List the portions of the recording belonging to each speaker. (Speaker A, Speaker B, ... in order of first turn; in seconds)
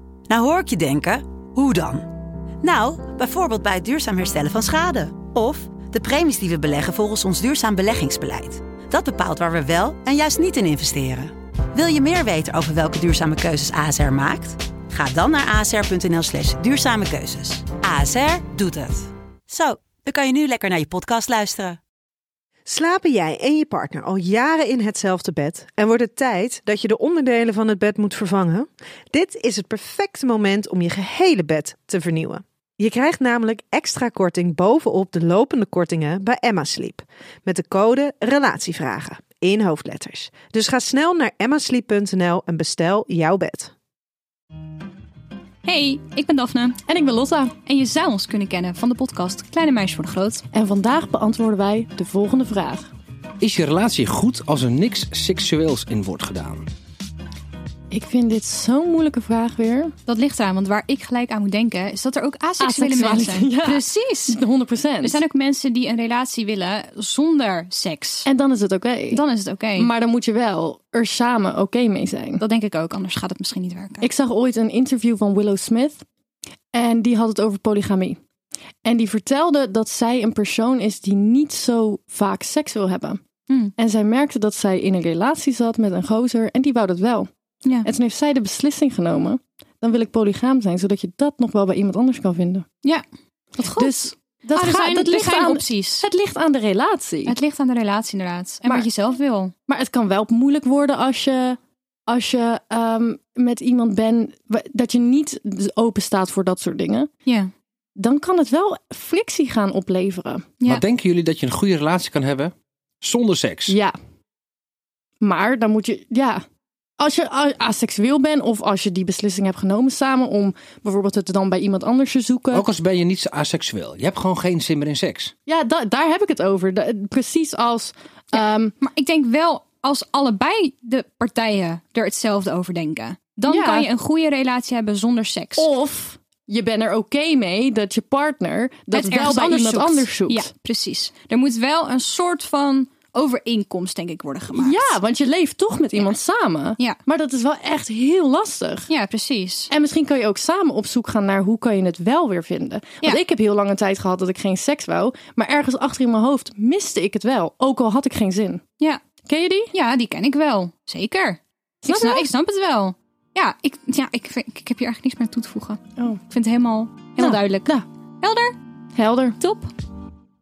Speaker A: 0.3-2.1, 2.6-21.8
Speaker B: 22.7-43.7
Speaker C: 45.6-46.8, 47.6-50.4, 60.1-64.4, 65.0-68.3, 69.1-69.9, 72.4-74.1, 93.6-93.9, 94.5-96.1, 97.3-99.5, 128.3-135.7, 138.9-145.0, 148.9-149.7, 159.7-168.5, 169.4-169.7
Speaker D: 46.9-47.5, 50.5-52.9, 57.9-59.9, 62.6-65.2, 68.3-69.2, 69.8-72.4, 74.0-76.0, 76.7-78.2, 78.8-83.2, 83.8-87.3, 87.8-92.7, 93.6-97.3, 99.7-107.1, 108.0-110.5, 113.7-114.0, 115.2-116.4, 117.0-122.7, 125.5-128.8, 133.5-133.9, 135.6-140.5, 144.6-148.9, 149.7-158.6, 159.3-159.7, 161.8-162.3, 167.2-167.8, 168.9-169.4
Speaker E: 53.4-56.7, 110.7-113.8, 122.5-125.3